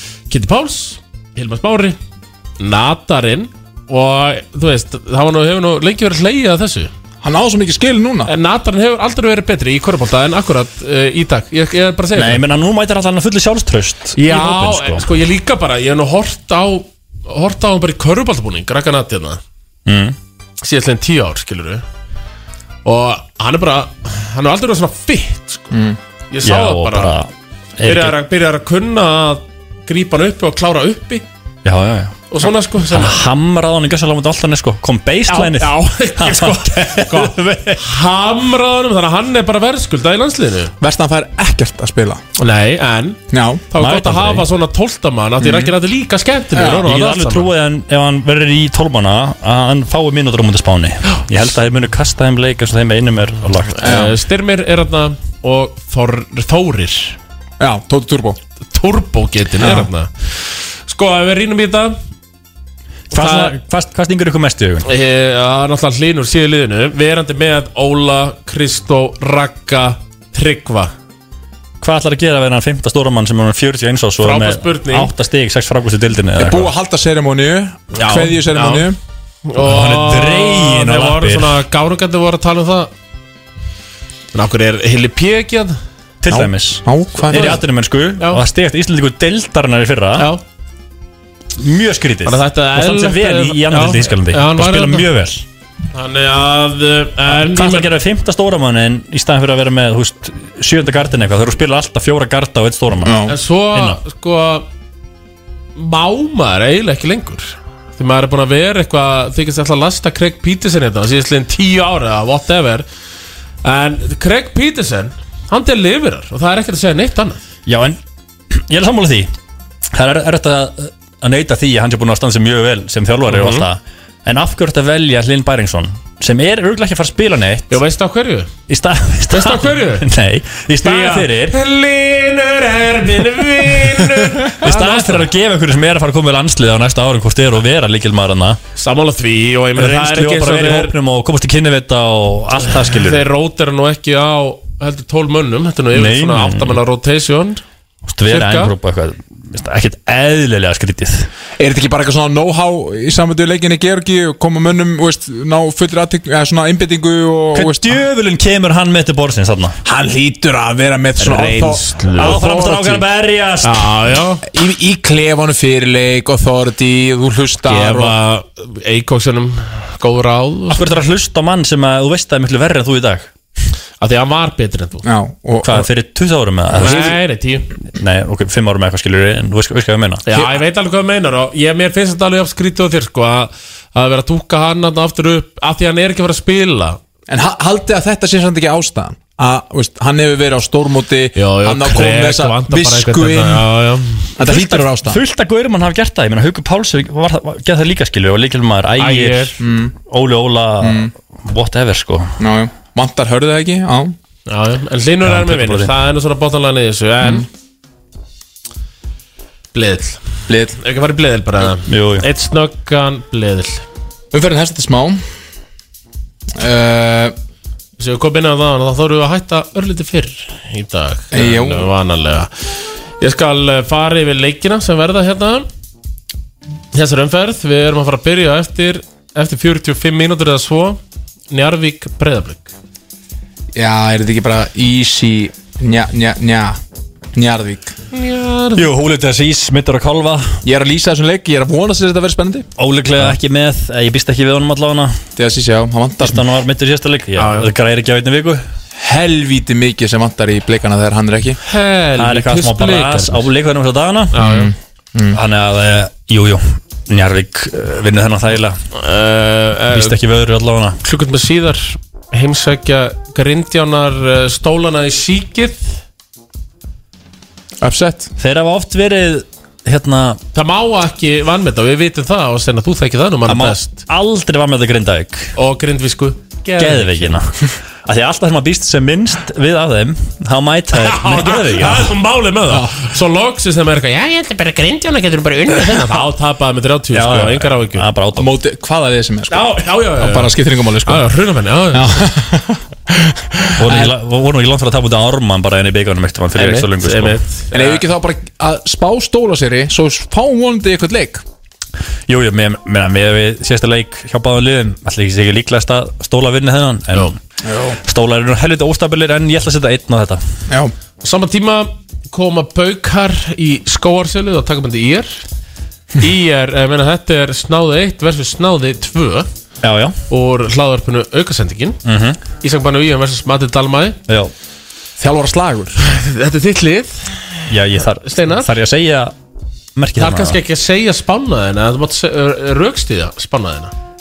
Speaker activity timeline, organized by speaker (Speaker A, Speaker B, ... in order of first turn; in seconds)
Speaker A: 0.3-2.0, 2.6-6.9, 8.3-12.4, 14.2-19.4, 20.6-21.8, 22.9-25.7, 26.3-27.2, 27.8-31.3, 32.3-33.2, 35.3-40.7, 42.4-47.5, 53.7-57.2, 58.7-60.1, 60.9-62.0, 63.1-63.6, 64.8-70.9, 74.2-75.1, 78.0-78.9, 79.5-82.9, 84.3-85.8, 87.2-87.6, 88.2-88.4, 92.2-95.1, 95.9-97.9, 103.3-104.7, 105.8-112.9, 113.6-117.4, 123.3-123.7, 127.7-128.5, 129.3-130.1, 130.8-135.3, 138.8-140.9, 142.6-147.6, 148.3-148.7, 161.2-163.0, 163.6-164.4, 167.6-171.0, 174.0-175.0, 176.7-177.7, 180.3-187.0, 191.4-194.4, 199.0-199.6, 204.5-207.5, 209.7-213.8, 218.0-222.5, 223.2-225.7, 226.9-231.0, 231.5-232.7, 238.1-238.9, 247.4-247.7, 251.6-253.5, 254.3-254.7, 258.9-260.2, 261.0-266.0, 270.5-274.0, 275.6-277.4, 280.9-288.1, 289.5-292.2, 296.6-298.0, 311.2-315.4, 316.2-319.5, 320.3-322.0, 322.6-324.2, 326.0-327.4, 328.2-328.7, 330.2-333.9
Speaker B: 7.2-8.3, 25.7-26.0, 40.8-42.2, 43.3-43.6, 45.4-45.7, 46.5-46.8, 53.8-54.1, 57.6-58.4, 59.6-59.9, 76.4-79.0, 86.3-87.6, 103.0-103.3, 151.6-158.0, 159.8-162.9, 164.5-168.2, 175.0-175.8, 187.3-193.7, 194.4-195.2, 199.6-199.9, 200.8-201.1, 202.4-204.2, 210.5-210.8, 214.3-215.2, 216.5-217.3, 221.3-221.9, 233.7-236.8, 237.3-237.9, 240.7-242.7, 245.4-246.4, 249.0-251.6, 254.4-255.4, 267.8-268.3, 288.4-291.3, 291.9-294.1, 297.7-301.4, 307.6-308.0, 325.2-326.0
Speaker C: 12.1-15.1, 19.9-20.2, 26.4-28.2, 31.6-37.8, 43.8-44.5, 46.7-54.1, 63.1-64.9, 71.8-76.7, 79.6-81.6, 86.2-90.3, 91.6-95.5, 97.3-103.2, 103.7-104.0, 117.7-118.0, 118.5-119.3, 119.9-127.8, 128.7-131.6, 134.0-138.6, 139.8-143.3, 145.9-146.8, 148.1-151.3, 157.5-159.8, 162.2-163.9, 170.7-173.3, 175.6-177.2, 177.9-180.2, 194.4-202.4, 205.2-205.9, 211.8-212.3, 238.8-240.6, 242.8-245.2, 246.2-248.6, 252.2-254.3, 255.3-258.8, 259.9-261.0, 268.4-270.4, 273.4-275.5, 276.8-277.5, 278.1-282.2, 287.1-288.5, 293.8-297.4, 302.3-307.4, 308.0-310.4, 319.8-320.2, 322.1-322.4, 327.7-329.3, 330.0-330.6